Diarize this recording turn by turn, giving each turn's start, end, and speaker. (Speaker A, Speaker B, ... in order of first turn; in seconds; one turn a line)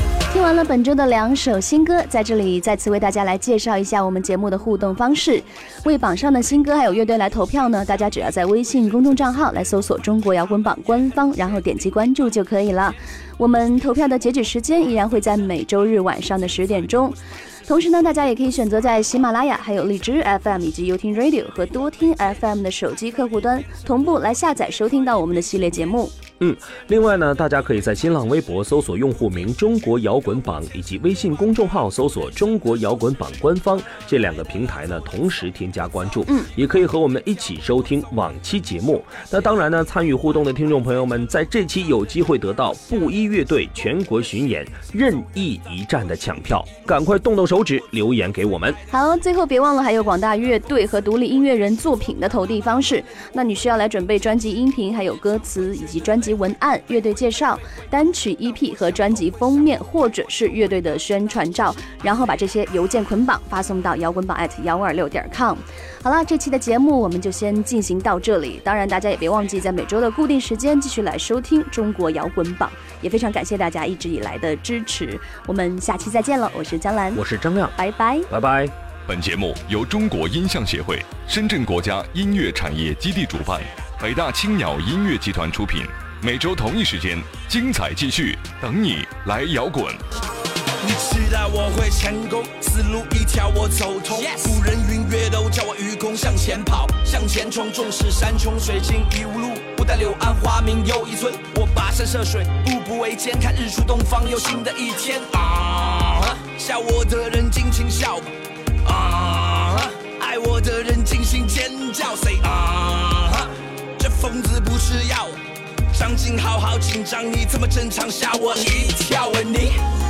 Speaker A: 0.3-26.1
Speaker B: 26.4-48.8
Speaker A: 48.9-77.2
Speaker B: 77.1-77.8
Speaker A: 77.8-78.3
Speaker B: 78.3-78.7
Speaker C: 79.1-90.0
Speaker D: 90.8-108.3
Speaker D: 108.8-115.4
Speaker D: 115.9-119.8